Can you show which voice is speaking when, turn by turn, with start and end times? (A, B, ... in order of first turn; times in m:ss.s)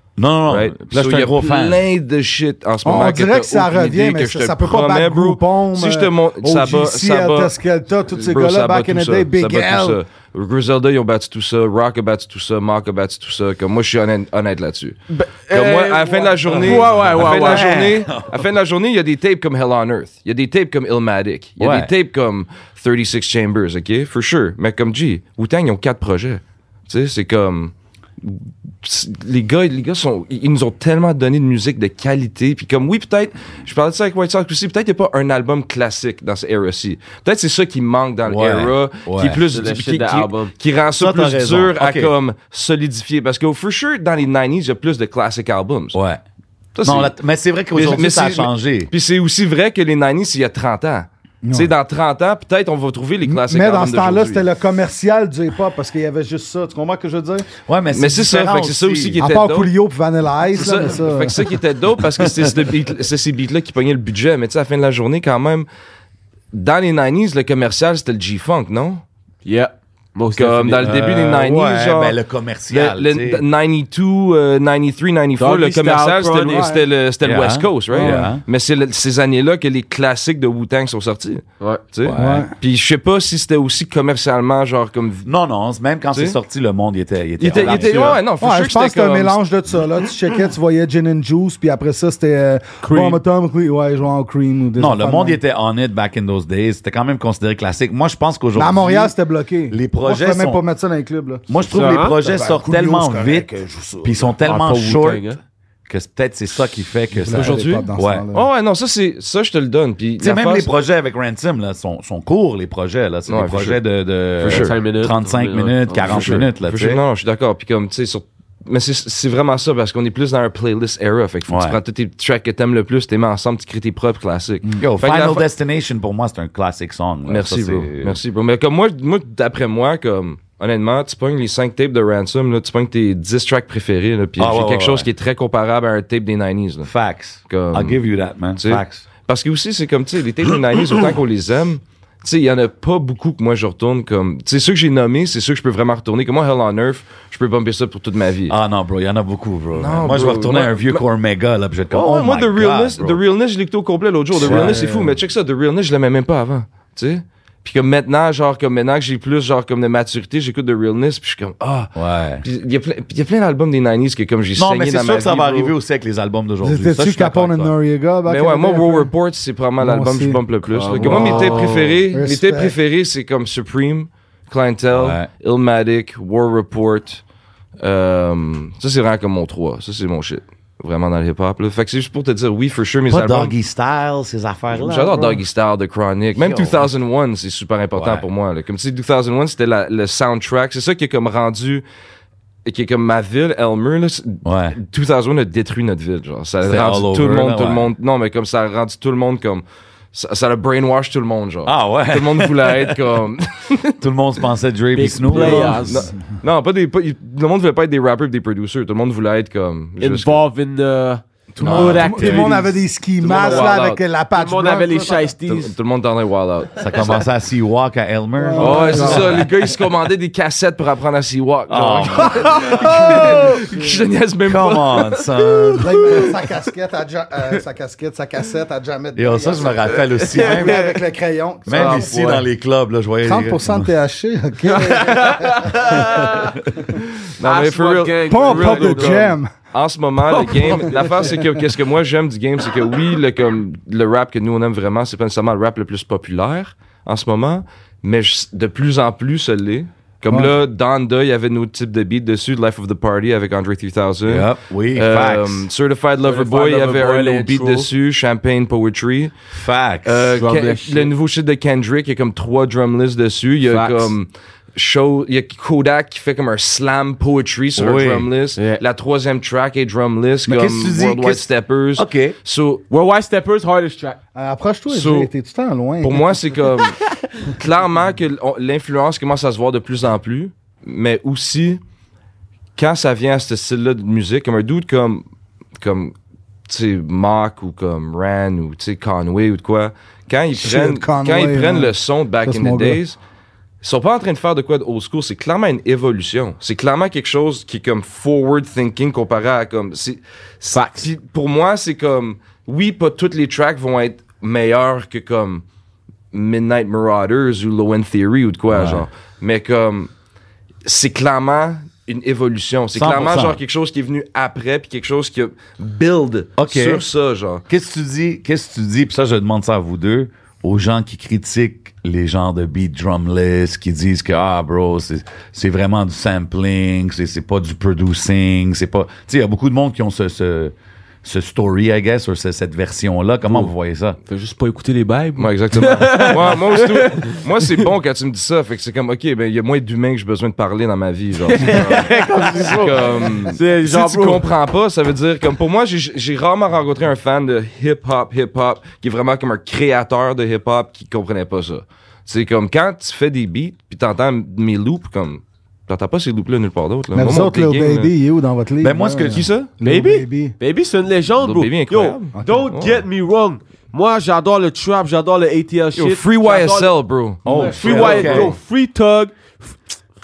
0:00.2-0:01.8 A
0:00.5-0:07.5 B
0:02.8-0:10.0 C
0:08.1-0:15.0 B
0:15.1-0:17.7 D
0:15.5-0:46.0 B
0:16.5-0:18.3 A
0:21.6-0:21.9 A
0:38.2-0:39.5 A
0:39.5-0:40.5 D
0:41.0-0:42.1 A
0:45.9-0:46.2 A
0:46.7-0:47.1 B
0:46.8-0:48.9 A
0:47.7-0:54.5 B
0:51.4-0:51.7 C
0:53.3-0:57.5 C
0:57.6-0:59.2 A
0:57.9-0:59.7 B
0:59.2-1:01.3 C
1:00.5-1:05.7 B
1:02.2-1:02.5 A
1:06.5-1:09.0 B
1:09.4-1:10.9 D
1:10.4-1:12.2 B
1:10.8-1:13.4 A
1:12.7-1:25.3 B
1:15.4-1:16.7 D
1:16.5-1:16.8 C
1:17.2-1:18.4 A
1:17.9-1:18.3 C
1:22.0-1:22.5 A
1:22.1-1:22.5 C
1:25.2-1:28.2 A
1:27.4-1:29.4 B
1:27.5-1:28.2 D
1:28.4-1:35.4 C
1:32.8-1:33.2 D
1:34.8-1:39.1 A
1:38.5-1:42.0 C
1:39.7-1:40.6 A
1:41.5-1:45.3 A
1:41.7-1:42.2 D
1:44.4-1:45.4 D
1:45.9-1:48.2 A
1:47.1-1:48.4 C
1:47.3-1:50.7 B
1:50.2-1:57.0 A
1:53.3-1:53.8 B
1:54.4-1:54.7 B
1:54.5-1:56.4 D
1:56.0-2:05.4 B
2:01.5-2:01.8 A
2:04.8-2:08.2 A
2:07.3-2:16.9 B
2:14.4-2:15.1 A
2:16.8-2:19.0 A
2:17.5-2:18.0 B
2:18.6-2:28.6 B
2:28.5-2:33.2 A
2:29.7-2:31.0 B
2:31.9-2:45.7 B
2:34.4-2:34.9 C
2:34.4-2:35.1 A
2:41.9-2:42.4 A
2:44.6-2:47.7 A
2:46.6-2:49.1 C
2:48.2-2:57.2 B
2:49.8-2:50.4 C
2:50.7-2:52.0 D
2:51.0-2:52.7 C
2:54.9-2:55.3 A
2:57.8-3:03.5 B
3:03.1-3:05.4 A
3:04.7-3:11.8 B
3:06.4-3:06.8 A
3:08.0-3:08.2 A
3:12.6-3:24.0 B
3:14.4-3:14.8 A
3:16.6-3:17.9 A
3:21.6-3:23.0 A
3:24.0-3:25.9 A
3:24.9-3:26.1 D
3:25.3-3:30.4 B
3:30.0-3:35.7 D
3:31.6-3:35.2 C
3:31.6-3:34.0 B
3:31.7-3:32.1 A
3:35.5-3:37.2 B
3:36.8-3:39.5 A
3:38.4-3:39.5 C
3:38.6-3:46.3 B
3:38.9-3:39.2 D
3:41.7-3:43.5 A
3:42.7-3:44.0 C
3:44.4-3:46.2 A
3:45.8-3:52.1 C
3:49.2-3:50.9 A
3:50.0-3:51.0 D
3:51.6-3:53.9 A
3:51.7-3:52.5 D
3:53.2-3:55.7 C
3:54.6-3:56.6 D
3:57.0-4:19.3 B
3:57.4-3:59.4 D
3:58.3-3:59.5 C
4:00.3-4:01.4 D
4:14.2-4:15.7 A
4:16.2-4:17.9 D
4:19.5-4:20.3 A
4:20.0-4:32.8 B
4:20.3-4:21.1 D
4:23.7-4:24.1 D
4:27.7-4:28.3 A
4:28.6-4:28.8 D
4:30.4-4:32.3 A
4:32.9-4:34.2 D
4:34.3-4:36.4 C
4:34.9-4:35.3 B
4:36.0-4:41.8 B
4:42.8-4:45.2 B
4:45.8-4:46.1 B
4:46.7-4:53.2 B
4:50.6-4:51.9 C
4:52.4-4:53.0 C
4:53.8-5:05.6 B
5:00.7-5:01.1 D
5:06.3-5:10.1 B
5:08.7-5:09.0 A
5:10.8-5:17.6 B
5:12.9-5:13.6 A
5:16.6-5:17.0 A
5:17.7-5:34.2 A
5:34.2-5:37.9 D
5:35.4-5:58.1 B
5:41.4-5:44.5 D
5:57.1-6:00.5 C
5:58.8-5:59.5 A
5:59.3-5:59.7 B
5:59.8-6:06.9 D
6:01.4-6:03.0 B
6:02.3-6:02.7 C
6:06.0-6:08.5 B
6:07.4-6:08.6 A
6:07.4-6:09.8 D